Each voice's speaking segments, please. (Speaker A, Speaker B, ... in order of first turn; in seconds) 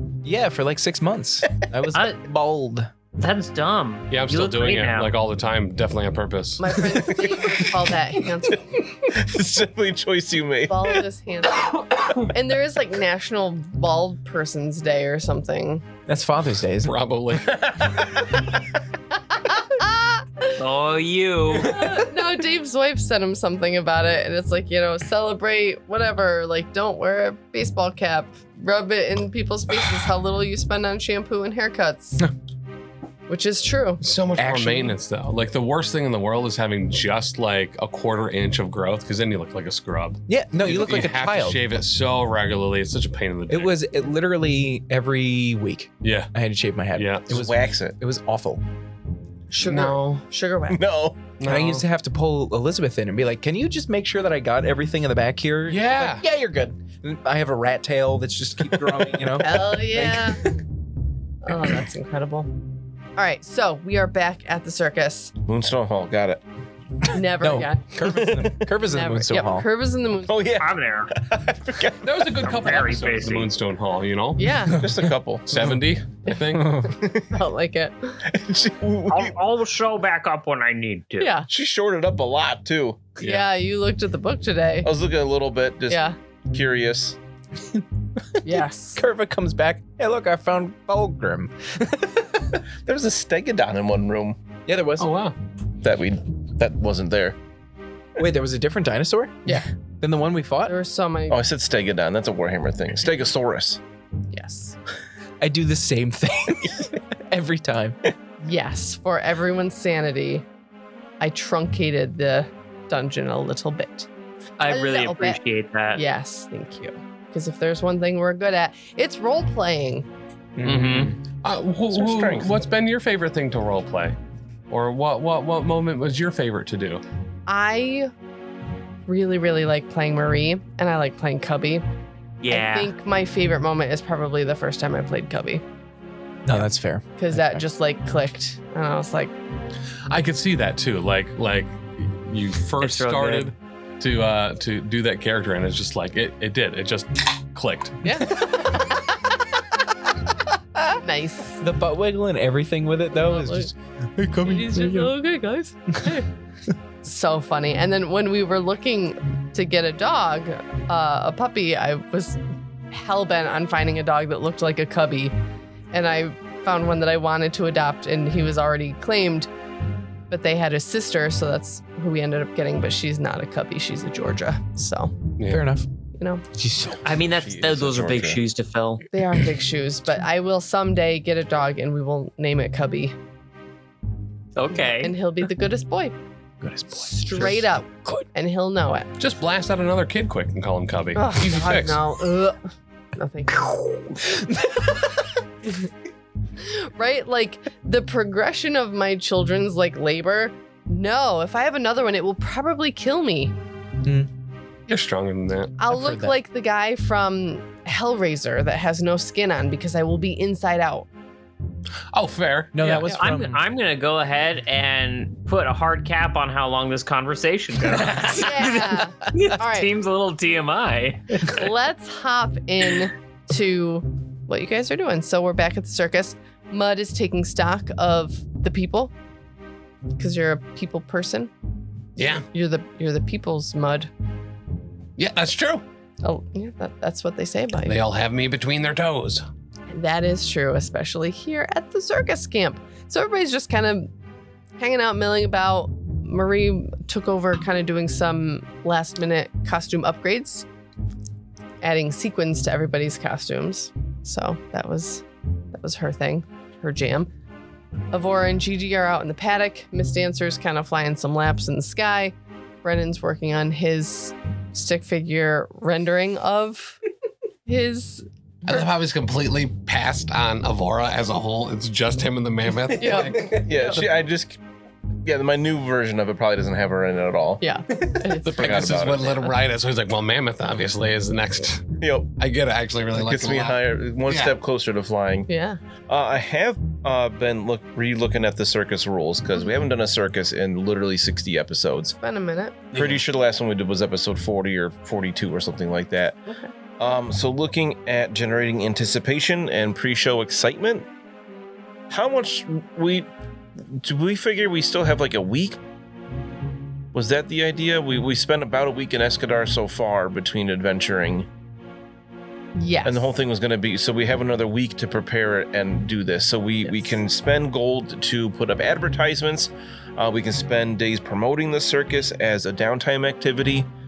Speaker A: 0.2-2.9, 16.1-16.9, 34.4-35.0, 40.3-41.6, 43.5-48.6, 51.4-60.5, 67.4-69.7, 76.6-76.9, 88.4-92.4, 94.7-95.2, 98.2-100.7, 105.4-108.0, 120.6-121.2, 136.5-137.7, 151.6-155.1, 175.5-175.9, 176.6-177.1, 186.6-188.2, 194.4-195.2, 204.0-204.3, 205.9-206.3, 212.7-213.6
Speaker B: 1.9-2.2, 3.2-5.1, 20.6-21.9, 70.6-71.1, 72.4-73.5, 79.1-81.4, 114.6-116.0, 120.7-121.1, 132.4-132.9, 142.8-143.5, 177.0-179.0, 184.6-185.1, 213.1-221.7
Speaker C: 4.1-6.7, 16.8-17.7, 34.1-43.8, 46.0-46.3, 46.9-47.3, 51.4-51.8, 55.8-56.2, 72.0-74.6, 75.5-76.8, 83.2-83.5, 120.7-124.2, 124.7-127.0, 140.1-148.0, 175.4-175.6, 189.2-192.0, 204.9-205.7
Speaker D: 6.6-8.7, 10.7-15.8, 19.4-20.6, 21.6-32.3, 33.3-34.0, 49.5-50.8, 59.3-60.6, 61.4-62.5, 63.2-65.3, 67.1-70.5, 74.4-74.8, 76.3-78.2, 81.2-81.5, 83.2-84.9, 85.9-86.2, 88.4-89.0, 100.6-101.4, 104.3-104.8, 108.4-110.5, 111.2-114.1, 114.6-115.4, 115.9-120.1, 127.5-128.1, 129.1-131.8, 132.5-135.6, 136.5-139.3, 148.0-149.3, 151.0-151.6, 153.1-153.7, 154.4-156.3, 157.0-165.3, 165.9-169.5, 170.3-175.2, 176.2-176.4, 179.1-183.2, 184.7-186.2, 187.1-189.1, 191.1-194.2, 196.6-203.5, 205.8-211.1, 218.3-219.9, 221.4-229.1, 230.2-231.5, 232.5-234.1, 236.2-238.0, 239.9-244.1, 244.8-250.7, 251.8-257.3, 258.1-267.0, 267.7-268.3, 273.0-274.0, 277.6-278.8, 285.5-285.8, 292.2-292.8, 312.8-313.3, 316.9-317.1
Speaker E: 7.0-7.3, 8.5-11.0, 47.3-48.0, 50.7-51.3, 65.5-66.4, 68.1-68.6, 70.3-72.6, 74.7-75.6, 76.9-77.3, 78.3-79.3, 81.5-83.2, 84.8-87.2, 92.8-94.4, 95.8-97.4, 101.3-103.8, 121.9-122.6, 177.1-178.4, 273.4-274.6, 275.2-277.6, 278.4-279.5, 282.0-282.3, 283.1-285.5, 286.1-292.2, 292.9-296.4, 297.0-301.1, 302.1-305.8, 307.1-311.5, 313.0-323.9
Speaker F: 55.7-56.0, 212.1-213.0, 232.2-232.4, 235.2-235.8, 237.9-239.4, 268.6-273.6, 278.4-281.9, 282.4-284.6, 292.9-293.2